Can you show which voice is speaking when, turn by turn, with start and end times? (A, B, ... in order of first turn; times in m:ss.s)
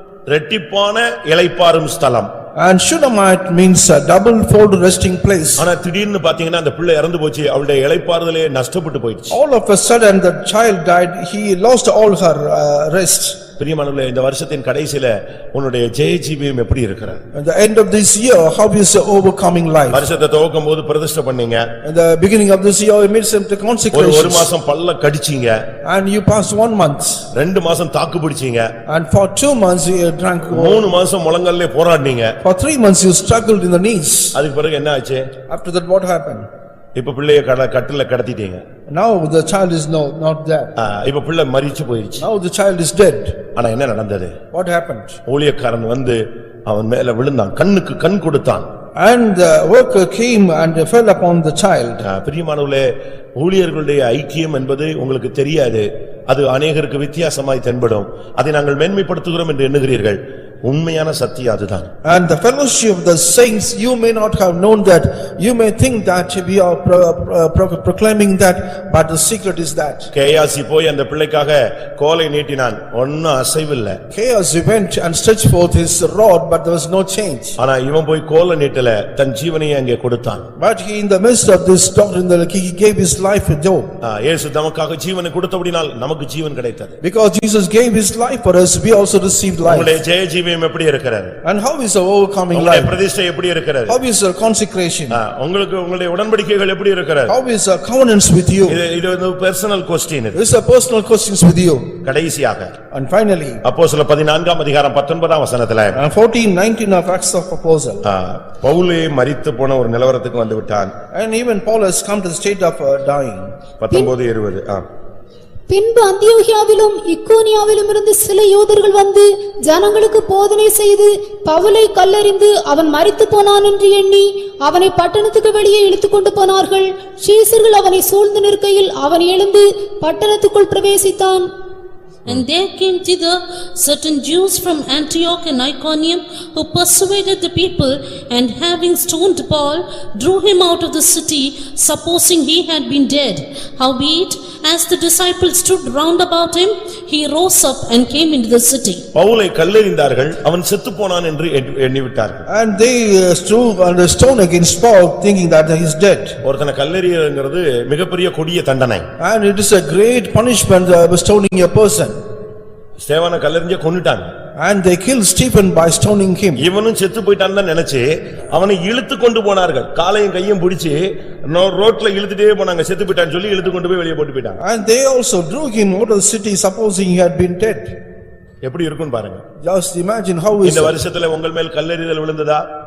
0:00.3-0:02.3 A
0:02.6-0:05.7 B
0:05.6-0:09.4 A
0:09.3-0:13.4 B
0:13.6-0:17.2 A
0:17.3-0:20.0 B
0:19.9-0:21.6 A
0:21.8-0:24.5 B
0:23.9-0:25.6 A
0:25.8-0:27.3 B
0:27.3-0:28.7 A
0:28.9-0:30.8 B
0:30.5-0:32.4 A
0:32.4-0:34.3 B
0:34.3-0:35.3 A
0:35.5-0:36.5 B
0:36.9-0:38.6 A
0:38.9-0:40.7 B
0:40.8-0:42.2 A
0:42.2-0:43.3 B
0:43.5-0:44.4 A
0:44.5-0:45.2 B
0:45.2-0:48.7 A
0:49.0-0:52.0 B
0:52.0-0:52.8 A
0:53.4-1:01.9 A
1:02.0-1:10.1 B
1:10.1-1:14.0 A
1:14.1-1:17.6 B
1:17.6-1:20.4 A
1:20.6-1:23.9 B
1:24.0-1:27.0 A
1:27.0-1:29.9 B
1:29.6-1:31.4 A
1:31.4-1:32.9 B
1:32.5-1:34.0 A
1:33.9-1:35.2 B
1:35.1-1:37.3 A
1:37.3-1:38.8 B
1:38.7-1:40.4 A
1:40.3-1:41.9 B
1:42.0-1:42.7 A
1:42.9-1:43.6 B
1:43.6-1:46.0 A
1:45.9-1:48.0 B
1:48.0-1:50.9 A
1:51.1-1:53.5 B
1:53.8-1:54.8 A
1:55.7-2:11.4 C
2:12.2-2:29.0 D
2:29.1-2:32.4 A
2:32.5-2:36.4 B
2:36.4-2:39.1 A
2:39.2-2:42.2 B
2:43.0-2:44.3 A
2:44.6-2:46.6 B
2:46.6-2:54.6 A
2:54.6-2:57.9 B
2:58.6-2:59.4 A
2:59.6-3:01.0 B
3:00.6-3:02.6 A